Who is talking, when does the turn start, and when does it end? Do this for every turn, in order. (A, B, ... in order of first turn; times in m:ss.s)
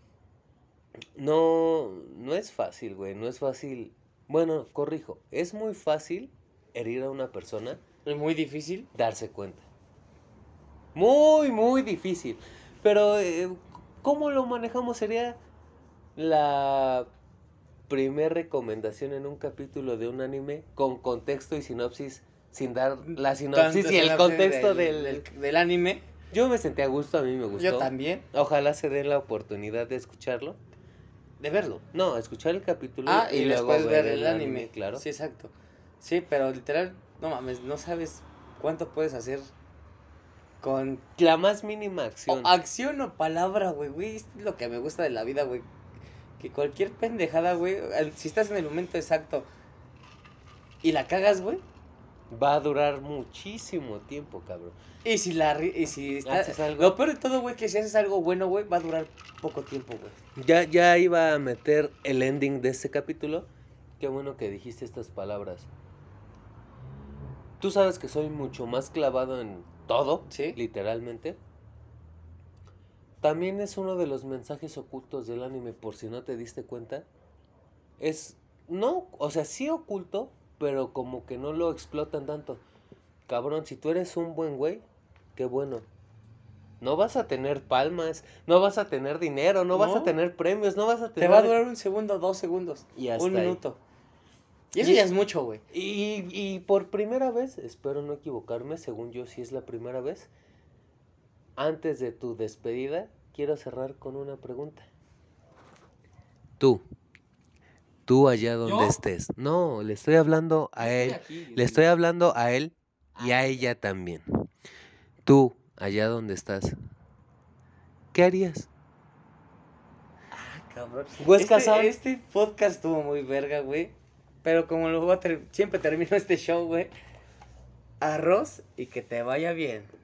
0:01.2-0:07.8 A
0:08.0-0:08.9 B
0:08.9-0:09.7 A
0:11.0-0:15.4 A
0:16.2-0:17.1 A
0:17.9-0:25.3 A
0:23.0-0:26.0 B
0:26.3-0:30.6 A
0:27.6-0:28.3 B
0:31.4-0:31.8 B
0:31.9-0:35.0 A
0:33.1-0:39.5 B
0:40.6-0:41.0 B
0:41.2-0:42.6 A
0:42.3-0:45.7 B
0:46.4-0:49.5 B
0:50.8-0:51.6 B
0:52.3-0:54.8 A
0:55.0-1:00.2 B
0:56.2-0:57.0 A
1:00.4-1:03.5 A
1:04.0-1:05.7 A
1:07.6-1:11.4 A
1:10.3-1:10.6 B
1:13.2-1:17.1 A
1:18.0-1:22.6 A
1:23.3-1:24.8 A
1:25.4-1:25.9 A
1:26.8-1:31.6 A
1:29.7-1:30.2 B
1:31.2-1:33.8 B
1:33.0-1:33.6 A
1:34.7-1:35.6 B
1:34.8-1:35.0 A
1:35.7-1:40.3 A
1:41.6-1:44.9 A
1:48.1-1:54.4 A
1:48.6-1:49.0 B
1:50.8-1:51.9 B
1:53.2-1:53.7 B
1:55.2-1:56.8 A
1:58.1-1:58.7 A
2:00.3-2:06.9 B
2:01.2-2:02.0 A
2:08.0-2:09.9 B